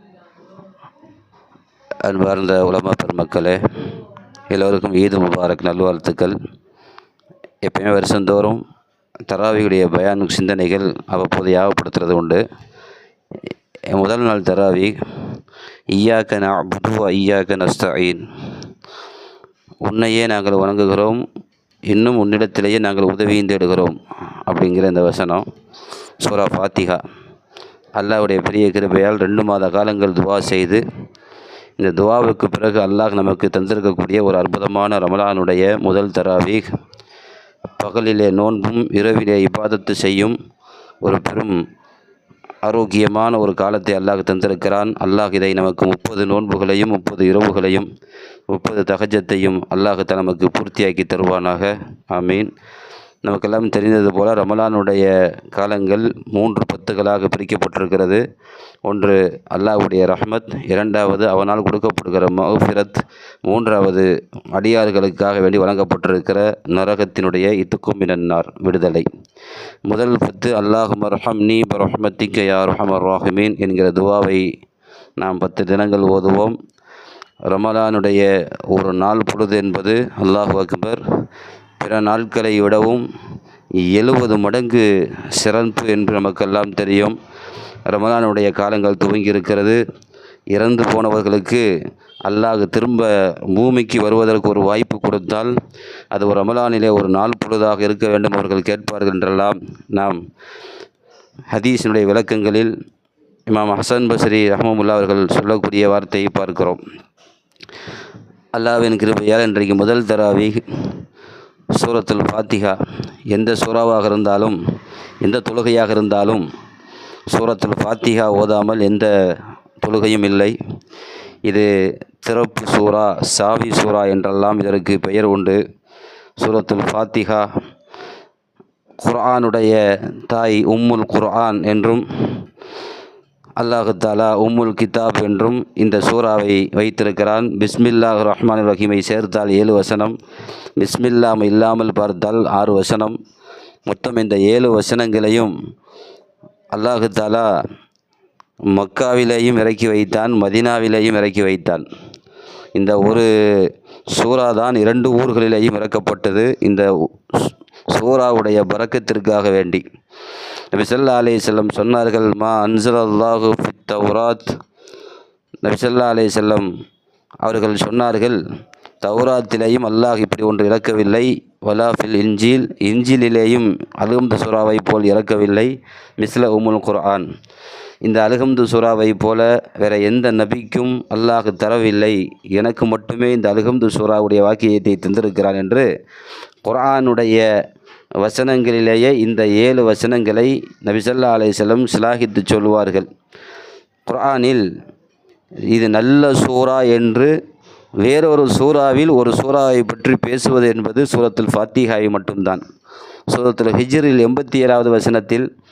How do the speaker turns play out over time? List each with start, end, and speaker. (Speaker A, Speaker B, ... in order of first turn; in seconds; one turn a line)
Speaker A: 2.0-3.6
Speaker A: 4.5-6.4
Speaker A: 7.6-8.6
Speaker A: 9.3-12.4
Speaker A: 13.9-14.9
Speaker A: 15.9-18.2
Speaker A: 19.8-21.2
Speaker A: 21.9-25.4
Speaker A: 26.2-27.0
Speaker A: 28.0-30.8
Speaker A: 31.8-36.7
Speaker A: 37.8-40.4
Speaker A: 41.0-41.6
Speaker A: 42.6-47.9
Speaker A: 48.5-52.5
Speaker A: 53.2-58.2
Speaker A: 58.9-69.1
Speaker A: 69.9-74.4
Speaker A: 75.2-76.5
Speaker A: 77.5-81.0
Speaker A: 81.8-83.1
Speaker A: 83.8-87.2
Speaker A: 87.9-89.8
Speaker A: 90.5-91.7
Speaker A: 92.2-95.5
Speaker A: 96.1-100.2
Speaker A: 101.5-102.7
Speaker A: 103.5-106.8
Speaker A: 108.5-110.6
Speaker A: 111.8-112.8
Speaker A: 113.3-114.6
Speaker A: 115.2-116.5
Speaker A: 117.3-119.1
Speaker A: 119.8-120.6
Speaker A: 122.2-125.6
Speaker A: 126.4-127.5
Speaker A: 129.0-132.1
Speaker A: 133.6-140.2
Speaker A: 140.8-143.2
Speaker A: 143.9-145.5
Speaker A: 146.7-147.5
Speaker A: 148.7-151.8
Speaker A: 152.8-159.8
Speaker A: 160.7-164.5
Speaker A: 165.6-166.7
Speaker A: 167.4-168.4
Speaker A: 169.0-177.3
Speaker A: 178.1-185.9
Speaker A: 186.7-187.4
Speaker A: 188.2-193.1
Speaker A: 194.1-194.7
Speaker A: 195.7-197.3
Speaker A: 198.0-202.6
Speaker A: 203.3-205.5